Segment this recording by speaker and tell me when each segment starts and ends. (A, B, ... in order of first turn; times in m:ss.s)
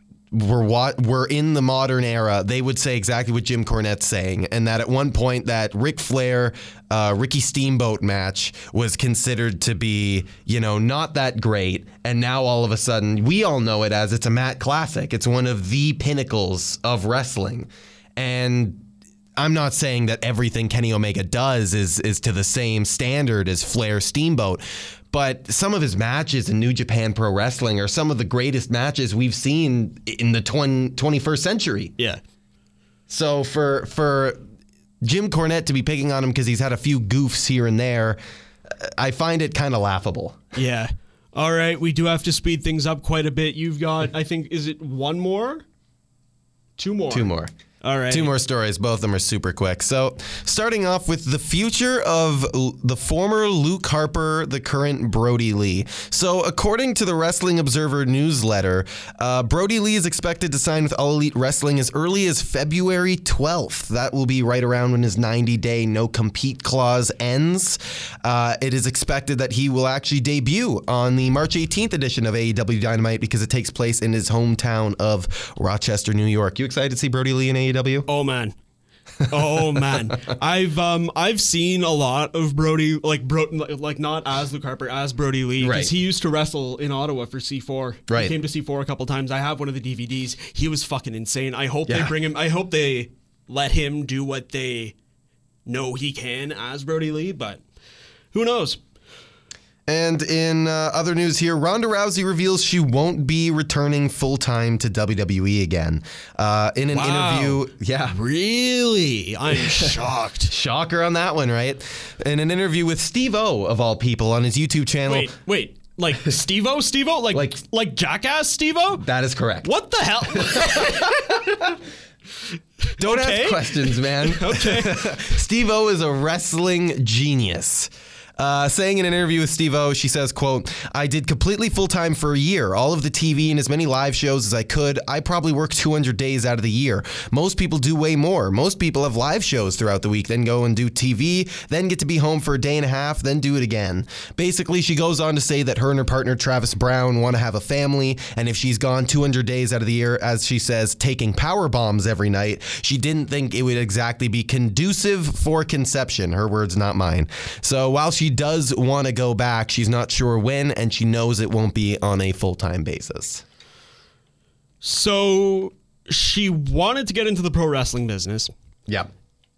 0:00.3-0:31.9 A
0:33.1-0:34.4 A
0:35.0-0:40.5 A
0:40.5-0:45.6 B
0:46.8-0:47.3 B
0:47.1-0:47.5 A
0:47.8-0:48.3 B
0:48.1-1:18.0 A
1:18.1-1:18.5 B
1:19.3-1:34.9 B
1:19.4-1:19.8 A
1:25.6-1:25.9 A
1:28.1-1:28.3 A
1:31.9-1:32.1 A
1:35.6-1:37.6 B
1:38.3-1:38.8 B
1:39.9-1:48.2 A
1:46.9-1:50.5 B
1:50.5-1:55.3 A
1:55.1-1:59.0 B
1:57.3-1:57.6 A
1:59.0-1:59.7 A
1:59.6-2:01.6 B
2:00.4-2:01.5 A
2:02.9-2:05.2 B
2:03.0-2:43.4 A
2:44.8-2:48.5 B